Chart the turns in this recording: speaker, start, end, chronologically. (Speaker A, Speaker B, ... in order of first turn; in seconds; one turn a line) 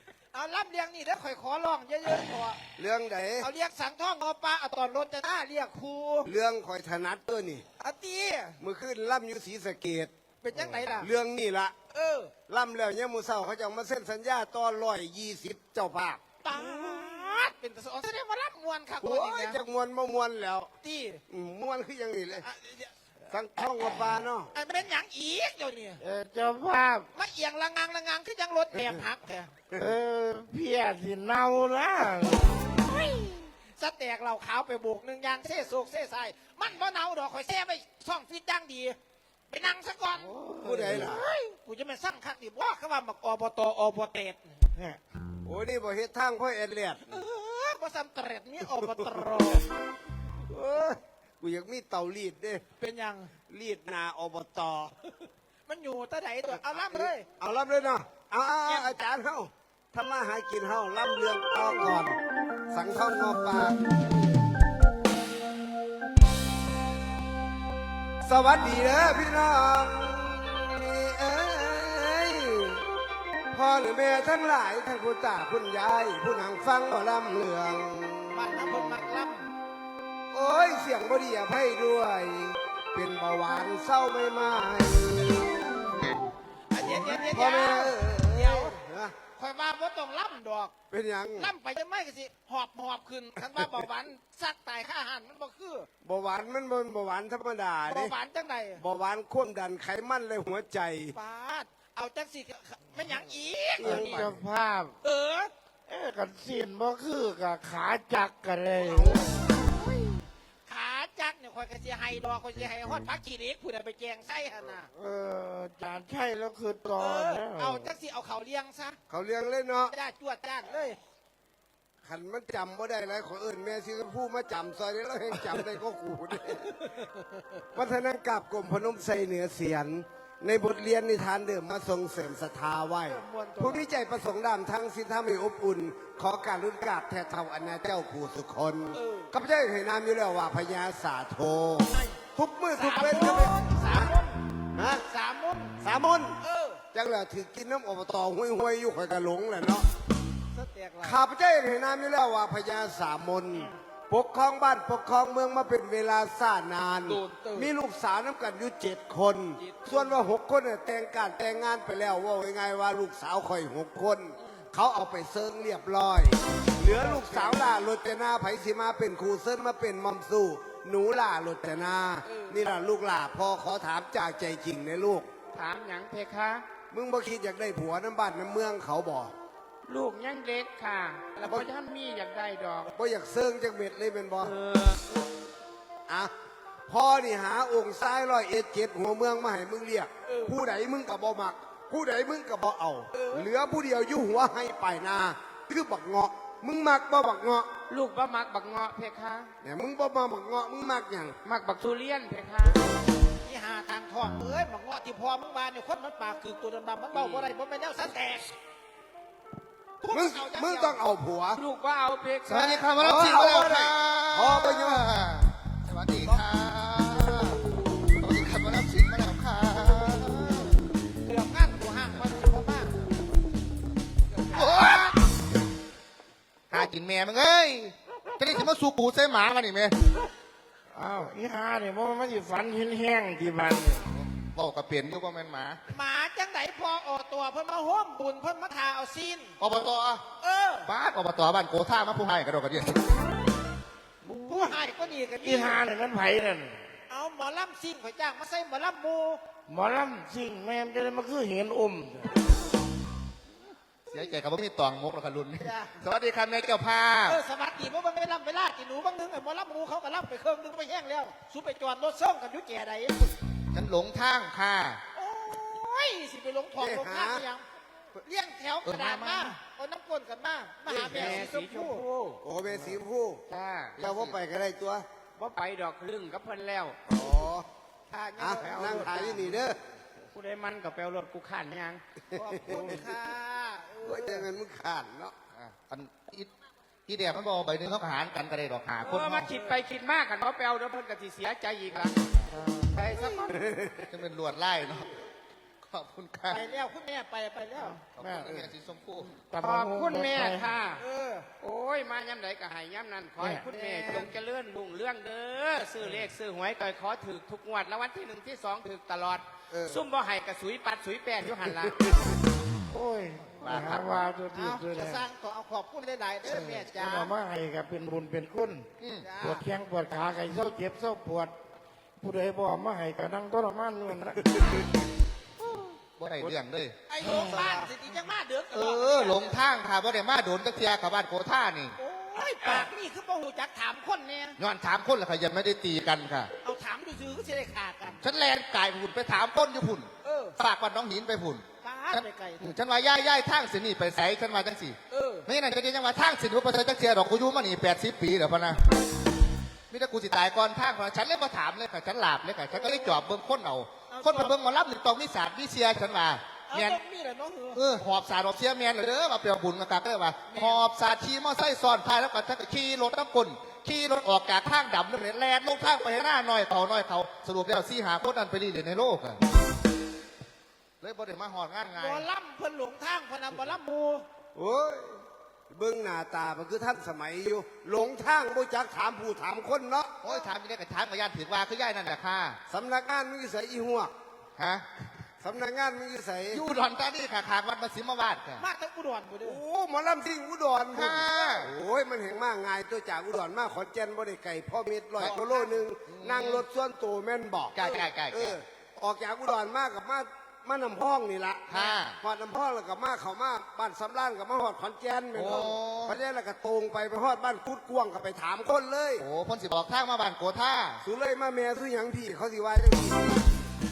Speaker A: 0.3-2.6
Speaker B: 2.8-3.5
Speaker A: 3.4-6.3
Speaker B: 6.3-7.7
Speaker A: 7.8-8.6
Speaker B: 8.6-11.8
Speaker A: 10.4-11.1
Speaker A: 11.9-12.3
Speaker B: 12.5-16.2
Speaker A: 16.4-19.6
Speaker B: 19.0-20.7
Speaker A: 20.8-21.2
Speaker B: 21.3-22.4
Speaker A: 22.4-22.9
Speaker B: 23.3-24.5
Speaker A: 24.5-26.0
Speaker C: 26.0-27.1
Speaker A: 27.1-29.5
Speaker C: 29.8-32.7
Speaker A: 32.8-39.0
Speaker A: 39.5-40.3
Speaker C: 40.2-41.4
Speaker B: 40.6-41.2
Speaker A: 41.4-44.6
Speaker C: 44.7-45.0
Speaker B: 45.4-47.2
Speaker A: 47.1-49.6
Speaker B: 50.5-52.6
Speaker A: 52.8-53.3
Speaker B: 53.5-54.9
Speaker A: 55.7-57.3
Speaker B: 56.6-62.2
Speaker B: 62.7-63.8
Speaker B: 68.2-72.8
Speaker B: 73.5-78.4
Speaker A: 78.3-79.5
Speaker B: 80.3-85.5
Speaker A: 86.7-88.8
Speaker B: 86.9-89.2
Speaker A: 89.4-90.7
Speaker B: 90.9-91.5
Speaker A: 91.4-95.9
Speaker B: 96.0-98.1
Speaker A: 97.9-98.8
Speaker B: 98.8-101.2
Speaker A: 101.1-104.2
Speaker B: 103.8-104.4
Speaker C: 103.8-105.0
Speaker A: 105.0-105.5
Speaker C: 105.9-109.4
Speaker B: 108.8-109.3
Speaker A: 110.7-114.9
Speaker C: 115.0-117.9
Speaker A: 117.0-119.0
Speaker B: 119.1-119.9
Speaker A: 119.9-121.0
Speaker B: 122.0-126.9
Speaker B: 127.7-144.1
Speaker A: 133.1-133.9
Speaker A: 138.9-139.3
Speaker A: 141.9-142.2
Speaker A: 142.7-144.4
Speaker B: 144.7-145.0
Speaker A: 145.1-145.8
Speaker B: 145.8-146.4
Speaker A: 146.4-146.8
Speaker B: 146.9-149.9
Speaker A: 150.5-151.2
Speaker B: 151.0-175.3
Speaker A: 157.0-157.7
Speaker A: 159.6-160.2
Speaker A: 166.8-167.6
Speaker A: 172.2-172.7
Speaker D: 175.5-176.6
Speaker B: 176.9-179.3
Speaker D: 179.9-182.9
Speaker B: 182.9-184.5
Speaker D: 184.4-185.0
Speaker B: 186.9-197.7
Speaker A: 190.3-190.6
Speaker A: 193.1-193.5
Speaker D: 197.9-199.5
Speaker B: 199.6-201.4
Speaker D: 201.4-202.8
Speaker A: 203.4-208.5
Speaker A: 210.0-211.0
Speaker B: 210.1-211.6
Speaker D: 211.6-212.8
Speaker E: 212.5-220.8
Speaker B: 213.0-215.1
Speaker A: 221.3-223.1
Speaker A: 224.3-225.1
Speaker E: 224.5-225.2
Speaker E: 226.7-229.9
Speaker C: 230.9-234.1
Speaker E: 234.2-235.8
Speaker A: 235.9-239.6
Speaker E: 239.6-240.2
Speaker A: 240.4-240.9
Speaker E: 240.9-243.3
Speaker C: 244.3-244.6
Speaker A: 244.4-245.8
Speaker C: 245.4-246.9
Speaker A: 247.1-249.4
Speaker C: 249.7-252.3
Speaker E: 254.1-257.4
Speaker A: 255.6-255.9
Speaker A: 257.3-263.3
Speaker E: 263.7-265.0
Speaker A: 265.1-267.6
Speaker B: 266.8-267.4
Speaker A: 268.2-272.0
Speaker E: 268.9-269.6
Speaker B: 270.9-271.5
Speaker D: 270.9-272.4
Speaker B: 272.4-273.4
Speaker D: 273.5-273.9
Speaker E: 274.0-274.4
Speaker B: 274.0-275.1
Speaker D: 275.4-277.0
Speaker B: 277.1-277.7
Speaker A: 278.1-279.6
Speaker B: 278.4-279.8
Speaker D: 280.3-282.0
Speaker B: 282.3-283.1
Speaker A: 282.3-284.5
Speaker B: 284.0-285.4
Speaker E: 285.6-286.5
Speaker E: 287.1-289.5
Speaker D: 289.0-292.2
Speaker C: 292.5-292.9
Speaker A: 292.9-293.5
Speaker D: 293.0-293.5
Speaker B: 293.5-294.1
Speaker E: 294.1-295.2
Speaker E: 295.8-296.6
Speaker A: 296.5-298.0
Speaker C: 297.8-298.7
Speaker E: 298.2-299.3
Speaker C: 299.3-300.7
Speaker D: 299.6-301.0
Speaker A: 301.0-301.5
Speaker D: 301.6-312.0
Speaker C: 303.4-303.6
Speaker A: 303.7-304.3
Speaker B: 309.7-310.0
Speaker C: 312.9-315.2
Speaker E: 313.6-314.1
Speaker A: 314.5-317.3
Speaker C: 316.5-321.6
Speaker E: 319.0-319.2
Speaker A: 319.2-319.7
Speaker C: 322.2-324.9
Speaker E: 326.2-327.0
Speaker A: 327.1-329.6
Speaker B: 327.3-327.9
Speaker E: 328.7-332.9
Speaker A: 332.0-334.6
Speaker E: 334.6-336.5
Speaker A: 336.6-338.2
Speaker E: 338.2-348.8
Speaker A: 340.2-340.6
Speaker A: 341.8-342.8
Speaker A: 345.1-345.5
Speaker E: 349.9-357.0
Speaker A: 352.7-353.2
Speaker A: 354.1-354.5
Speaker A: 356.7-357.8
Speaker E: 357.7-369.4
Speaker A: 360.5-360.9
Speaker E: 371.0-372.2
Speaker A: 372.0-374.2
Speaker B: 374.6-380.2
Speaker E: 380.2-382.6
Speaker B: 382.7-384.1
Speaker E: 384.6-384.9
Speaker B: 385.4-386.6
Speaker E: 386.5-388.6
Speaker A: 388.6-389.6
Speaker B: 389.4-409.2
Speaker E: 390.9-391.8
Speaker E: 395.2-395.4
Speaker A: 395.2-395.8
Speaker E: 396.1-396.6
Speaker E: 397.7-398.6
Speaker E: 401.7-402.2
Speaker E: 405.3-406.2
Speaker E: 409.2-411.0
Speaker B: 411.0-413.4